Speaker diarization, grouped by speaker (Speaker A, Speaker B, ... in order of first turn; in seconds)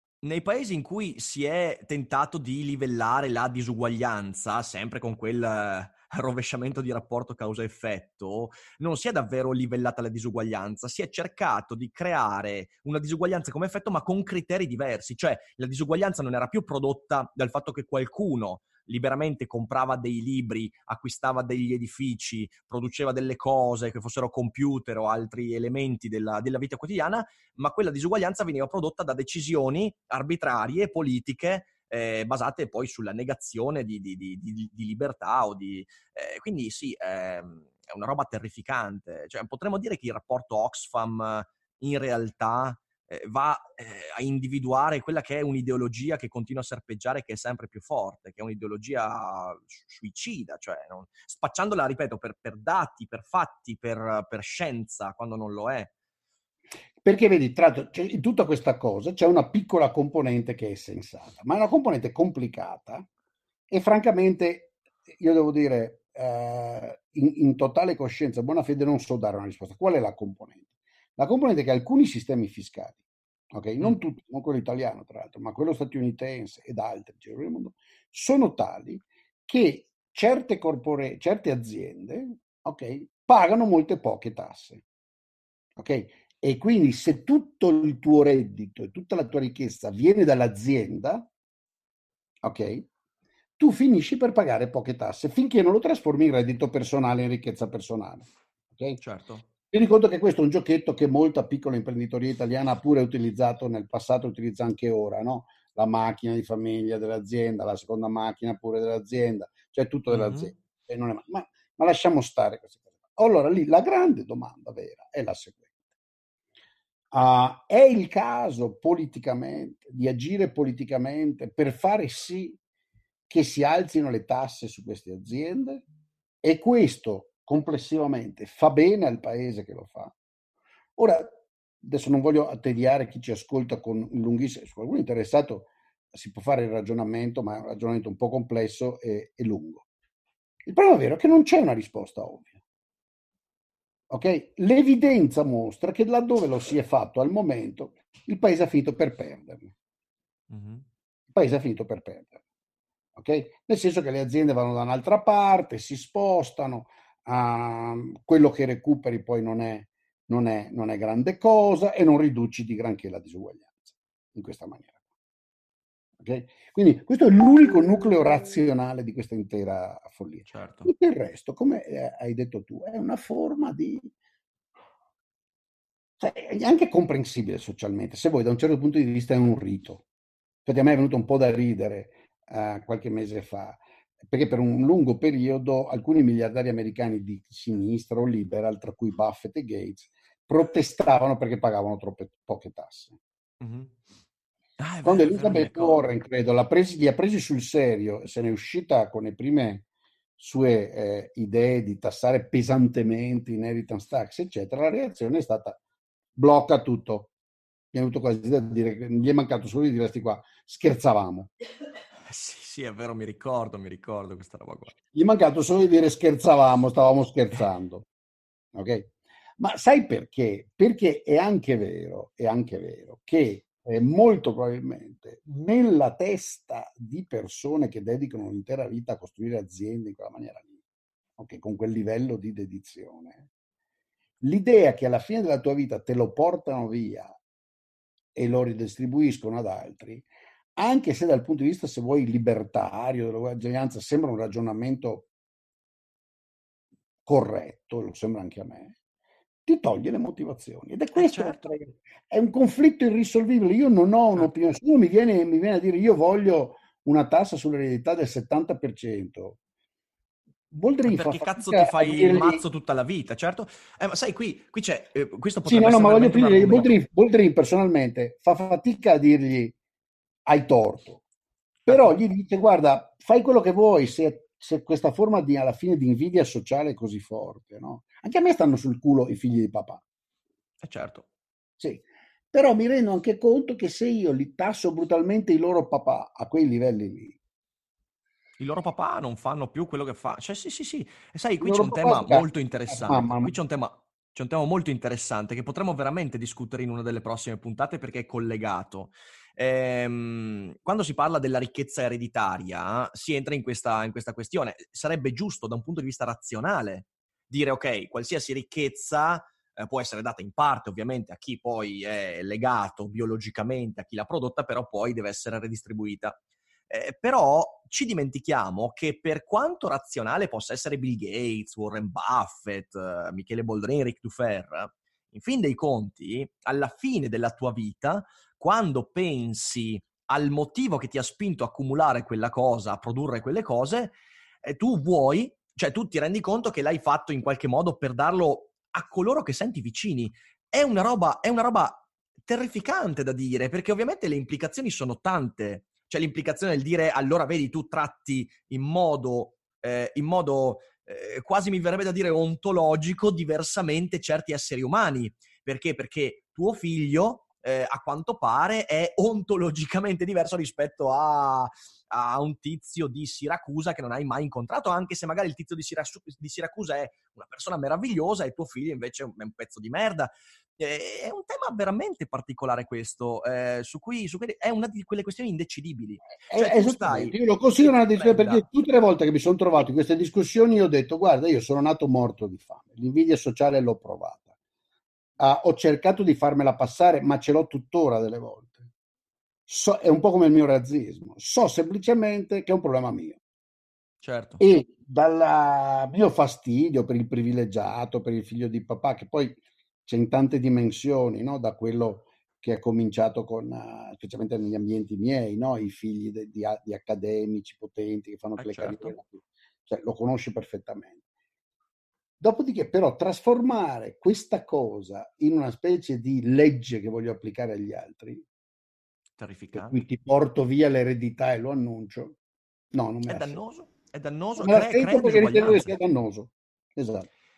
Speaker A: 0.2-55.9, 99.0-99.5, 110.1-110.5, 150.5-150.9, 170.5-170.9, 193.6-193.9, 194.8-196.1, 212.3-214.9, 251.2-251.7, 261.0-266.9, 271.9-272.1, 280.8-281.2, 288.6-316.4, 316.9-378.7, 394.2-394.6, 408.6-409.2, 419.4-420.0, 423.3-425.9
Speaker B: 57.0-63.1, 63.7-70.7, 71.2-73.0, 73.5-84.8, 85.8-91.3, 92.4-92.9, 93.6-99.0, 99.7-115.7, 117.1-122.6, 123.3-125.8, 126.4-130.1, 131.0-139.9, 140.7-142.6, 144.1-149.7, 151.3-152.4, 153.2-164.9, 166.2-174.1, 176.2-180.0, 180.7-193.2, 195.0-199.9, 200.4-205.8, 206.4-207.3, 207.9-211.5, 215.1-218.1, 218.7-230.8, 231.4-233.4, 234.4-237.4, 238.3-245.3, 247.3-248.9, 249.7-259.6, 260.7-262.6, 265.7-269.8, 270.5-271.2, 271.9-280.0, 281.8-287.4, 291.6-293.5, 376.5-384.5, 385.4-388.9, 389.7-393.4, 394.6-411.2, 412.4-418.4, 419.7-422.4, 422.9-423.6, 424.6-427.3